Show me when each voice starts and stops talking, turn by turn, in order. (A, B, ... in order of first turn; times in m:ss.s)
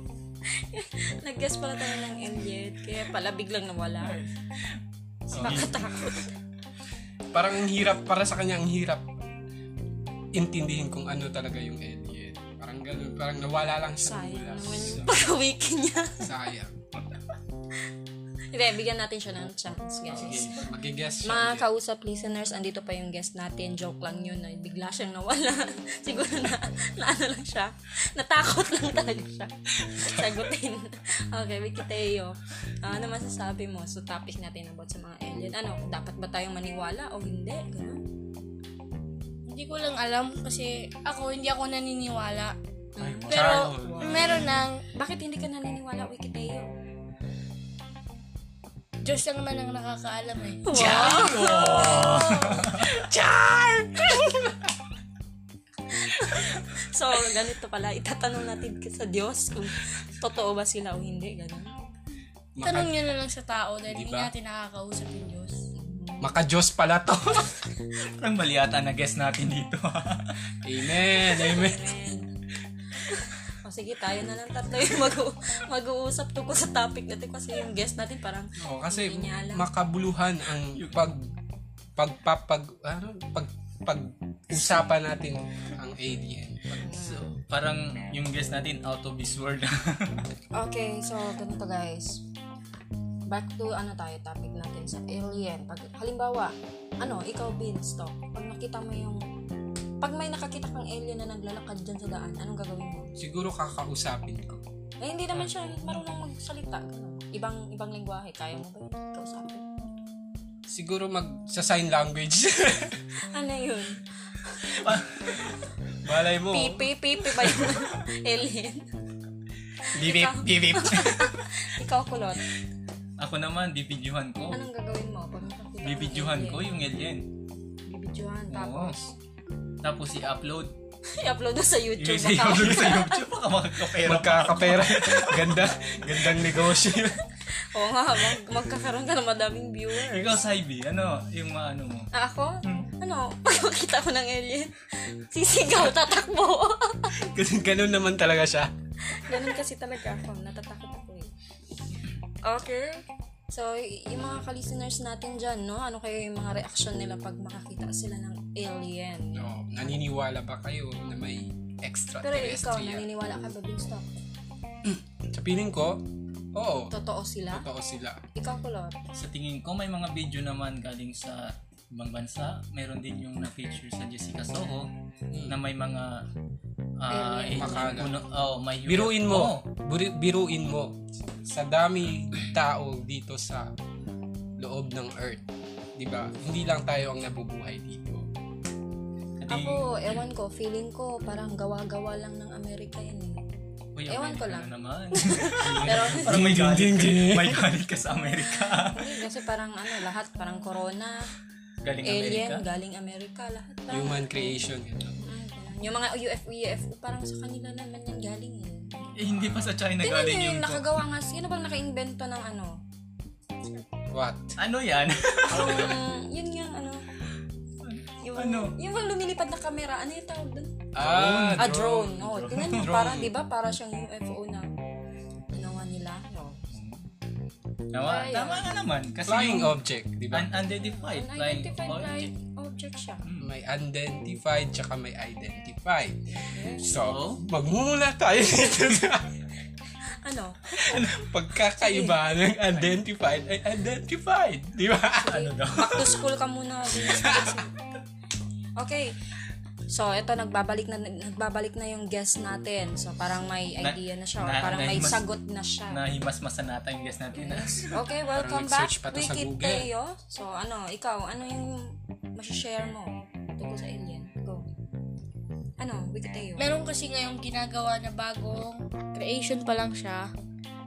0:00.6-0:04.2 A
0:04.0-0:04.3 B
0:05.3-0:06.3 A
0:05.3-0:05.8 B
0:05.3-0:05.8 C
0:07.3-0:09.0 C
0:10.3-0:15.1 C
0:14.0-0:16.3 A
0:16.2-0:16.7 C
0:18.5-0:20.5 A
0:20.1-0:20.7 B
0:20.1-0:21.6 C
0:21.2-0:38.0 A
0:39.5-0:42.5 D
0:43.0-0:46.7 A
0:43.0-0:44.5 B
0:43.3-0:44.8 D
0:49.0-0:50.6 D
0:50.6-0:52.7 A
0:50.7-0:53.0 B
0:51.0-0:51.5 C
0:52.9-0:54.6 C
0:55.9-1:01.7 A
1:02.5-1:03.0 C
1:02.6-1:05.6 D
1:03.8-1:04.3 C
1:05.7-1:06.3 A
1:06.2-1:07.6 C
1:08.0-1:10.4 B
1:10.6-1:11.9 C
1:11.1-1:12.3 A
1:12.9-1:19.7 A
1:18.6-1:21.3 C
1:20.7-1:21.0 B
1:22.0-1:26.9 C
1:26.8-1:27.3 A
1:26.9-1:30.3 B
1:30.5-1:32.2 A
1:33.3-1:39.2 A
1:40.0-1:43.1 A
1:43.2-1:44.6 C
1:45.0-1:49.6 A
1:45.3-1:46.0 B
1:50.7-1:53.1 C
1:53.3-1:54.5 A
1:54.7-1:55.6 B
1:56.0-1:56.9 C
1:56.5-1:58.9 A
1:59.9-2:02.4 A
1:59.9-2:01.2 C
2:03.2-2:04.6 B
2:04.5-2:06.6 A
2:05.8-2:07.3 B
2:07.8-2:09.1 A
2:08.5-2:08.9 B
2:09.8-2:10.7 B
2:11.2-2:13.2 A
2:12.0-2:16.4 B
2:12.5-2:13.0 C
2:14.0-2:17.2 C
2:17.7-2:20.4 A
2:19.9-2:22.1 B
2:22.1-2:27.1 A
2:27.2-2:28.7 C
2:29.1-2:31.3 A
2:32.4-2:39.5 A
2:39.3-2:43.0 C
2:42.2-2:44.1 A
2:44.8-2:46.0 C
2:46.5-2:46.9 C
2:46.9-2:47.7 A
2:47.5-2:48.2 C
2:48.4-2:48.9 A
2:49.1-2:54.9 B
2:55.5-2:56.2 B
2:57.0-2:59.6 B
2:57.1-2:58.0 A
2:57.5-2:58.1 C
2:58.8-3:03.7 C
3:04.6-3:05.4 C
3:06.0-3:08.3 C
3:09.4-3:09.9 B
3:09.5-3:13.4 A
3:13.9-3:19.2 B
3:14.1-3:16.4 A
3:15.6-3:17.6 C
3:18.7-3:21.3 A
3:21.8-3:22.6 B
3:22.0-3:24.6 A
3:23.9-3:25.2 C
3:25.2-3:32.8 A
3:29.2-3:30.9 B
3:34.1-3:34.5 C
3:34.6-3:36.0 B
3:35.5-3:37.1 A
3:37.8-3:38.8 B
3:38.2-3:40.7 A
3:40.9-3:43.3 C
3:41.0-3:42.9 B
3:41.6-3:44.7 A
3:45.5-3:46.6 A
3:46.7-3:47.0 B
3:47.9-3:49.8 B
3:48.0-3:48.8 A
3:49.3-3:50.6 C
3:50.3-3:52.3 B
3:51.0-3:53.2 A
3:53.2-3:53.5 B
3:53.4-3:56.2 C
3:56.3-3:56.8 A
3:56.8-3:59.4 C
3:56.9-3:57.4 B
4:00.2-4:01.0 A
4:00.8-4:05.3 C
4:00.9-4:01.2 B
4:01.8-4:02.2 A
4:02.7-4:03.0 B
4:05.2-4:07.7 A
4:05.2-4:06.2 B
4:07.0-4:07.5 C
4:08.8-4:09.1 A
4:09.9-4:16.0 A
4:13.8-4:15.2 B
4:15.9-4:18.0 B
4:17.3-4:24.6 A
4:18.3-4:19.9 C
4:25.8-4:26.7 A
4:26.6-4:30.3 D